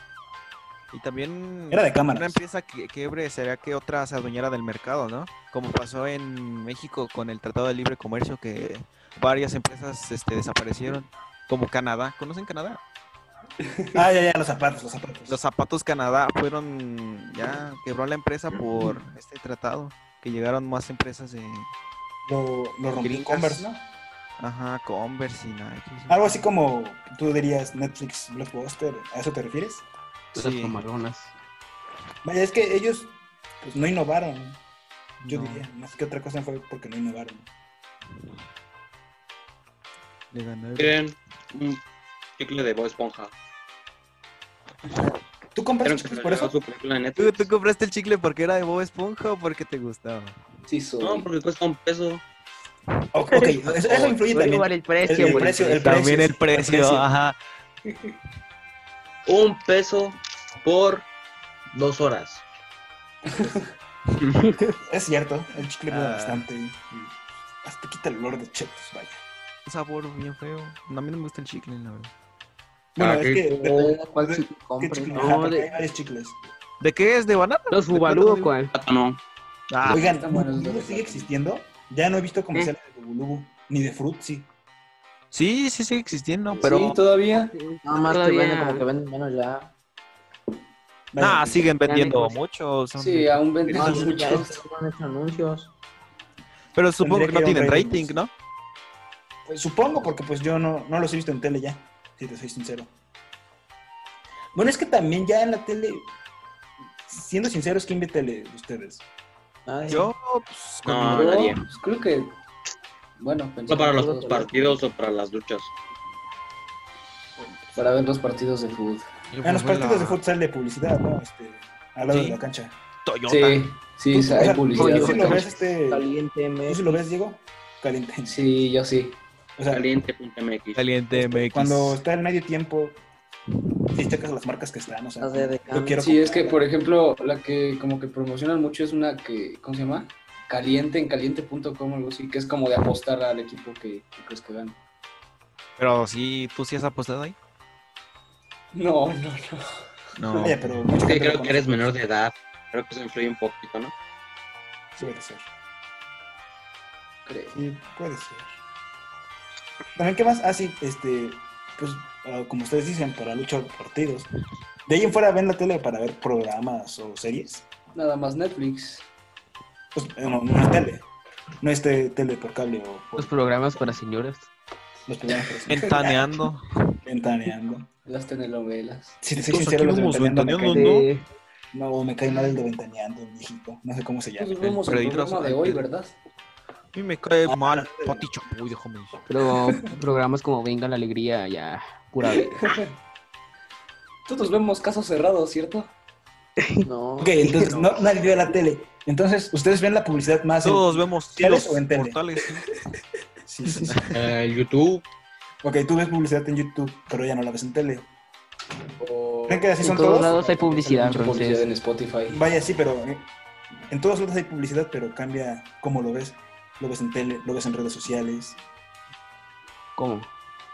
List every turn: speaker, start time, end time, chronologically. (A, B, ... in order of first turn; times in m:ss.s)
0:00.9-0:12.8 A
0:01.7-0:02.4 B
0:13.9-0:15.4 B
0:15.3-0:21.7 A
0:22.2-0:23.8 B
0:23.0-0:23.7 A
0:24.4-0:26.5 A
0:26.1-0:29.8 B
0:30.3-0:31.3 C
0:30.3-0:30.8 A
0:32.2-0:34.6 B
0:35.2-0:37.5 B
0:35.2-0:35.6 A
0:40.3-0:41.0 A
0:40.8-0:41.8 D
0:42.4-0:43.3 D
0:45.5-0:46.5 B
0:45.8-0:47.5 D
0:47.2-0:50.4 A
0:50.7-0:51.3 E
0:51.0-0:52.2 D
0:53.1-0:57.1 B
0:53.3-0:56.0 C
0:55.2-0:55.5 E
0:55.8-0:57.4 A
0:59.2-1:01.1 D
1:01.7-1:02.4 D
1:03.3-1:03.6 B
1:04.8-1:09.2 B
1:05.9-1:06.5 A
1:09.6-1:12.1 A
1:13.0-1:16.4 B
1:13.0-1:13.5 D
1:13.5-1:15.5 F
1:15.1-1:15.7 C
1:16.8-1:18.5 A
1:17.7-1:18.7 C
1:18.7-1:19.2 D
1:19.7-1:20.1 A
1:19.8-1:24.5 B
1:19.9-1:21.3 E
1:25.3-1:27.0 A
1:26.5-1:27.5 E
1:27.5-1:28.8 C
1:27.8-1:29.7 F
1:31.1-1:31.7 B
1:31.2-1:34.1 A
1:31.8-1:32.4 C
1:33.0-1:34.6 E
1:33.7-1:35.7 F
1:36.7-1:38.3 A
1:37.0-1:38.2 B
1:39.4-1:42.9 B
1:44.5-1:46.1 B
1:47.0-1:49.0 B
1:49.7-1:50.1 F
1:49.9-1:51.6 A
1:50.8-1:51.6 D
1:51.1-1:52.4 E
1:53.2-1:54.7 E
1:53.7-1:55.7 D
1:54.0-1:54.8 F
1:57.8-1:59.1 E
1:59.3-2:00.2 A
1:59.4-2:02.8 B
2:02.0-2:02.4 A
2:03.0-2:03.8 A
2:03.3-2:05.5 E
2:04.1-2:06.1 B
2:04.7-2:05.5 A
2:05.1-2:07.2 F
2:06.6-2:08.4 B
2:08.2-2:09.2 E
2:09.6-2:09.8 B
2:09.7-2:10.8 D
2:10.8-2:12.0 A
2:11.1-2:13.0 B
2:13.9-2:16.6 B
2:15.2-2:15.9 F
2:15.9-2:24.8 E
2:25.8-2:27.4 A
2:28.7-2:29.8 E
2:30.2-2:30.8 A
2:30.4-2:31.9 B
2:31.0-2:33.9 D
2:35.0-2:35.5 B
2:37.2-2:37.6 E
2:37.5-2:38.5 B
2:40.0-2:44.3 B
2:44.8-2:47.7 B
2:47.9-2:49.1 E
2:49.9-2:51.0 B
2:51.6-2:54.0 B
2:53.2-2:54.5 C
2:55.1-2:56.4 B
2:55.7-2:56.9 A
2:57.0-2:57.9 B
2:58.0-2:59.2 E
2:59.2-3:01.0 B
2:59.3-3:01.1 A
3:00.7-3:01.2 C
3:01.7-3:04.5 B
3:04.4-3:06.2 E
3:04.6-3:05.8 A
3:06.9-3:09.2 A
3:07.5-3:08.2 B
3:09.3-3:12.6 C
3:12.2-3:12.9 E
3:14.2-3:15.9 E
3:16.6-3:16.8 C
3:16.8-3:17.7 F
3:17.2-3:22.2 B
3:20.6-3:22.7 A
3:23.4-3:24.1 B
3:23.6-3:24.2 A
3:24.1-3:25.0 D
3:25.6-3:28.1 B
3:29.0-3:32.4 E
3:29.5-3:30.4 B
3:29.8-3:31.7 C
3:32.3-3:33.3 B
3:33.9-3:38.6 B
3:40.0-3:40.3 C